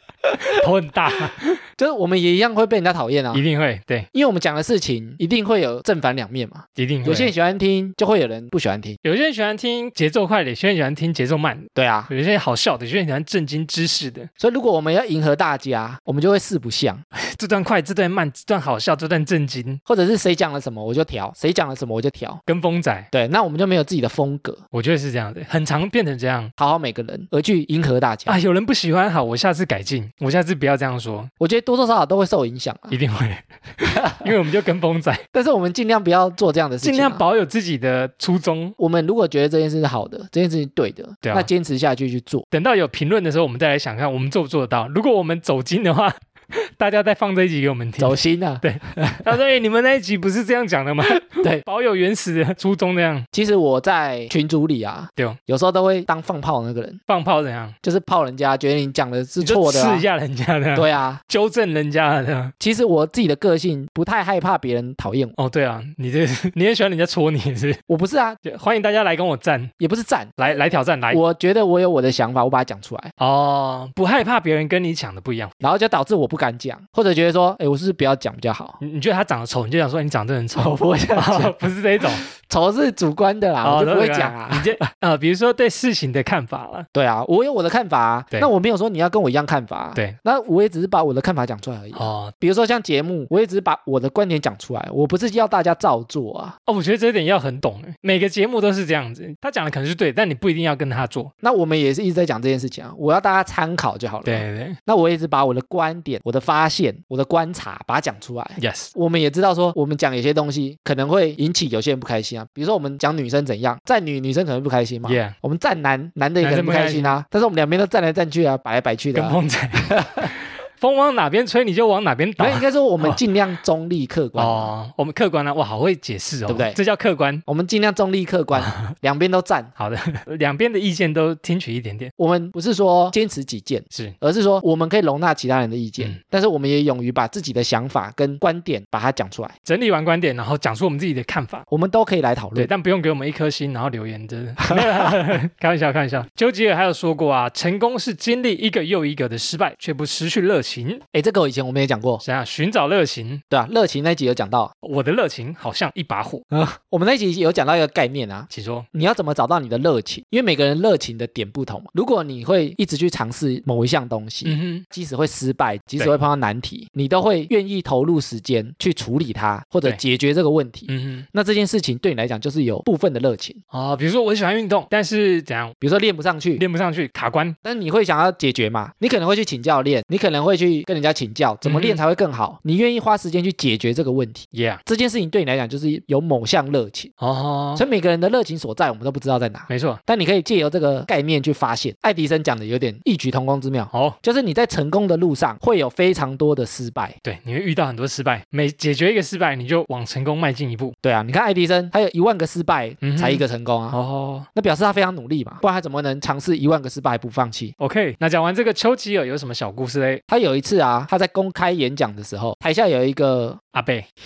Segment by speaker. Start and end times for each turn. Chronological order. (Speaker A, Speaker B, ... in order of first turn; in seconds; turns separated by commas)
Speaker A: 0.4-1.6, Speaker B: 1.8-3.4, Speaker A: 3.3-4.1, Speaker B: 4.1-9.0, Speaker A: 6.8-7.3, Speaker A: 9.0-14.3, Speaker B: 11.8-12.1, Speaker B: 14.4-17.0, Speaker A: 17.1-19.8, Speaker B: 19.9-22.4, Speaker A: 22.5-23.1, Speaker B: 23.1-24.6, Speaker A: 24.7-26.5, Speaker B: 26.6-28.4, Speaker A: 28.3-31.3, Speaker B: 31.4-33.0, Speaker A: 32.9-35.2, Speaker B: 33.9-34.3, Speaker B: 35.3-37.2, Speaker A: 36.8-38.8, Speaker B: 38.8-42.5, Speaker A: 41.2-41.5, Speaker A: 42.5-53.3, Speaker B: 48.0-49.3, Speaker B: 51.2-51.6, Speaker B: 53.3-57.0, Speaker A: 57.1-57.8, Speaker B: 57.8-60.0, Speaker A: 59.4-62.5, Speaker B: 60.7-61.2, Speaker B: 62.6-65.3, Speaker A: 65.4-67.8, Speaker B: 67.9-68.4, Speaker A: 68.4-69.7, Speaker B: 69.8-70.3, Speaker A: 70.4-71.2, Speaker B: 71.1-73.1, Speaker A: 73.2-75.5, Speaker B: 75.6-78.8, Speaker A: 78.8-82.2, Speaker B: 80.6-84.8, Speaker A: 83.6-86.9, Speaker B: 86.9-96.6, Speaker A: 92.0-92.3, Speaker A: 96.7-101.3, Speaker B: 101.4-120.3, Speaker A: 104.2-104.8, Speaker A: 108.6-108.9, Speaker A: 115.1-115.3, Speaker A: 116.4-117.2, Speaker A: 119.1-123.2, Speaker B: 122.4-124.7, Speaker A: 124.4-127.4, Speaker B: 126.5-126.8, Speaker B: 127.5-129.7, Speaker A: 128.5-128.9, Speaker A: 129.8-132.1, Speaker B: 132.2-139.5, Speaker A: 139.7-141.7, Speaker B: 141.7-142.7, Speaker A: 142.6-151.0, Speaker B: 144.7-145.2, Speaker B: 151.1-152.2, Speaker A: 152.2-153.4, Speaker B: 153.5-154.7, Speaker A: 154.8-156.4, Speaker B: 156.5-173.6, Speaker A: 158.5-158.9, Speaker A: 164.4-164.8, Speaker A: 170.9-171.3, Speaker A: 173.7-175.8, Speaker B: 175.8-176.6, Speaker A: 176.6-177.6, Speaker B: 177.6-187.1, Speaker A: 181.6-182.0, Speaker A: 184.5-184.8, Speaker A: 187.2-187.8, Speaker B: 187.8-197.2, Speaker A: 189.7-190.0, Speaker A: 193.9-194.2, Speaker A: 197.2-200.9, Speaker B: 201.0-204.0, Speaker A: 203.0-204.5, Speaker B: 204.5-207.7, Speaker A: 207.8-210.2, Speaker B: 210.3-213.6, Speaker A: 213.7-214.1